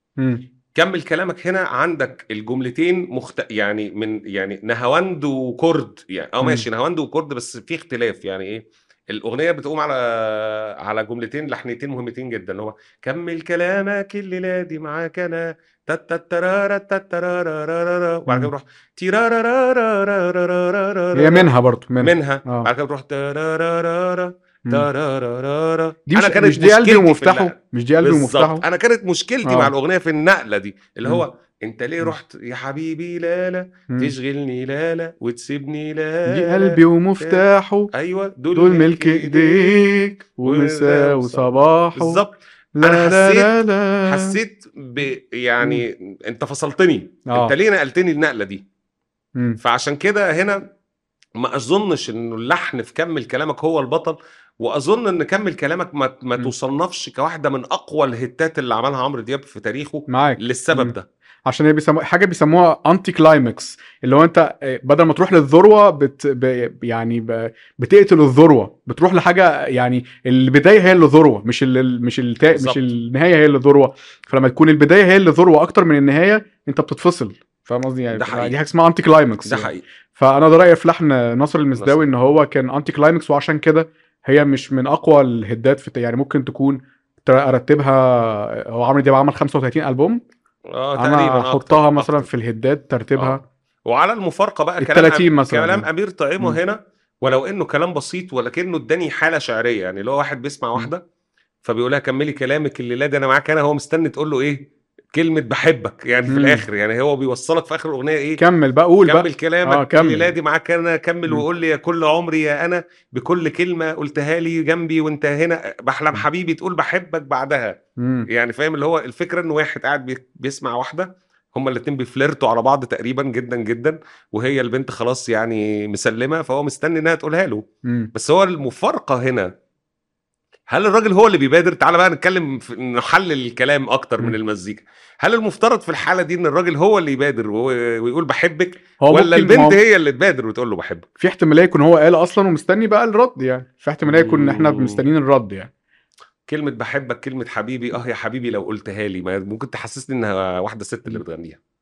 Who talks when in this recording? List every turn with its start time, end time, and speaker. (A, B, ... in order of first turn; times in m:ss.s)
0:00.2-0:00.4 A
0:00.7-0:21.5 B
0:21.2-0:22.7 A
0:22.0-0:39.8 B
0:26.1-0:28.6 A
0:29.4-0:29.7 A
0:36.3-0:37.9 A
0:38.5-0:42.2 A
0:40.4-0:43.5 B
0:42.8-0:44.4 A
0:44.0-0:48.6 B
0:47.3-0:47.5 A
0:49.6-0:50.6 B
0:51.4-1:01.0 B
1:00.1-1:00.9 A
1:01.4-1:30.2 A
1:12.5-1:12.9 B
1:18.1-1:18.6 B
1:19.4-1:19.8 B
1:21.8-1:22.1 B
1:30.7-1:32.3 B
1:31.0-1:33.4 A
1:33.2-1:41.0 B
1:34.8-1:35.9 A
1:41.6-1:48.4 B
1:46.3-1:46.6 A
1:48.4-1:50.3 A
1:49.0-1:57.8 B
1:58.0-1:58.3 A
1:58.3-2:09.5 B
2:07.8-2:08.1 A
2:10.7-2:21.0 B
2:19.0-2:19.8 A
2:21.2-2:25.7 A
2:24.0-2:25.0 B
2:26.5-2:31.6 B